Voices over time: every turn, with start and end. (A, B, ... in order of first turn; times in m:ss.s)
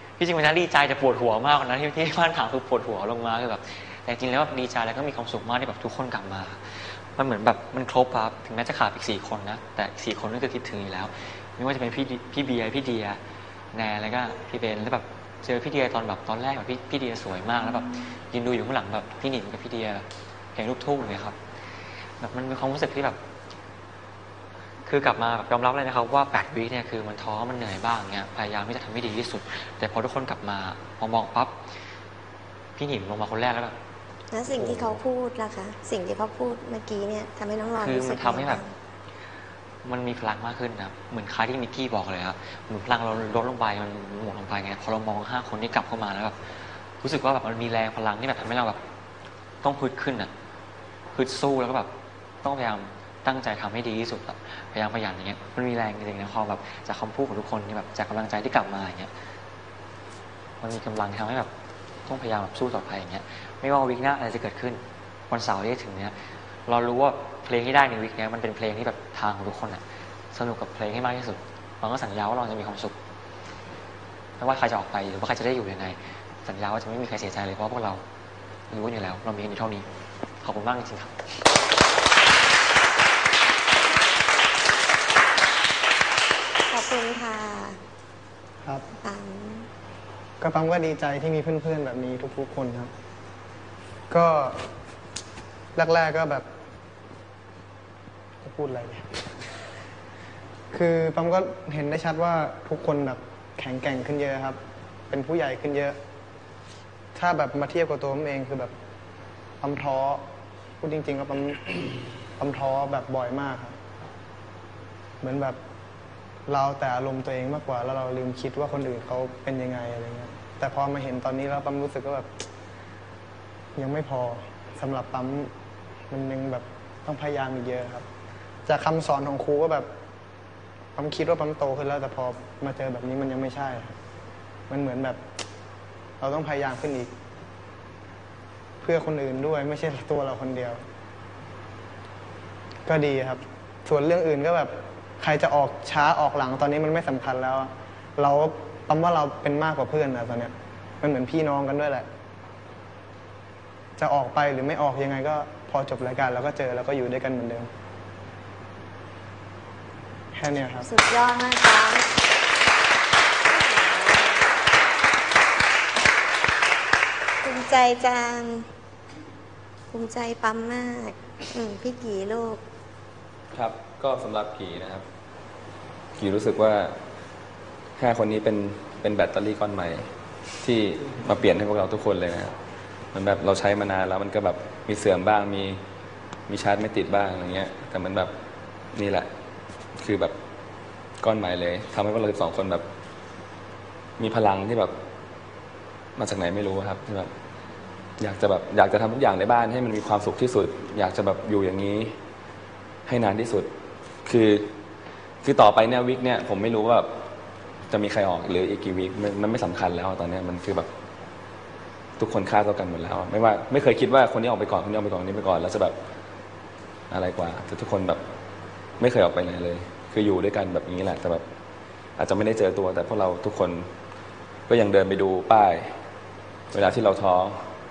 0:00.2-0:13.2 A
0:13.7-0:21.4 A
0:22.2-0:23.2 A
0:24.9-0:31.5 A
0:32.8-0:33.8 A
0:34.3-0:38.7 B
0:37.8-0:38.6 A
0:39.8-0:46.4 A
0:47.0-0:48.8 A
0:49.6-0:50.3 A
0:51.1-0:51.9 A
0:52.4-0:59.1 A
1:00.6-1:01.5 A
1:02.1-1:06.2 A
1:06.7-1:13.0 A
1:14.4-1:18.0 A
1:18.7-1:19.9 A
1:20.4-1:21.2 A
1:26.7-1:27.8 B
1:28.6-1:28.9 C
1:29.0-1:29.7 B
1:30.4-1:32.9 C
1:34.1-1:34.6 C
1:35.8-1:36.5 C
1:38.4-1:39.4 C
1:40.7-1:44.6 C
1:45.1-1:46.0 C
1:47.2-1:48.7 C
1:49.6-1:50.2 C
1:50.8-1:51.8 C
1:52.4-1:53.8 C
1:55.2-1:55.6 C
1:56.5-2:02.3 C
2:03.8-2:05.5 C
2:06.1-2:08.1 C
2:08.7-2:09.9 C
2:11.0-2:14.0 C
2:14.7-2:15.2 C
2:16.2-2:17.1 C
2:18.8-2:20.8 C
2:22.9-2:32.1 C
2:34.0-2:37.7 C
2:40.3-2:40.9 C
2:40.8-2:42.1 B
2:43.5-2:44.4 B
2:47.4-2:48.7 B
2:49.9-2:52.6 B
2:53.5-2:55.1 D
2:56.2-2:57.0 D
2:58.0-3:00.1 D
3:00.6-3:02.6 D
3:03.1-3:05.8 D
3:06.5-3:08.3 D
3:09.0-3:09.3 D
3:10.0-3:10.4 D
3:11.2-3:12.9 D
3:14.2-3:15.0 D
3:16.2-3:17.3 D
3:18.2-3:22.1 D
3:23.1-3:23.7 D
3:24.3-3:24.7 D
3:25.4-3:27.1 D
3:27.9-3:30.9 D
3:32.2-3:36.0 D
3:37.1-3:38.2 D
3:39.0-3:41.4 D
3:42.2-3:43.9 D
3:44.7-3:45.9 D
3:46.7-3:47.6 D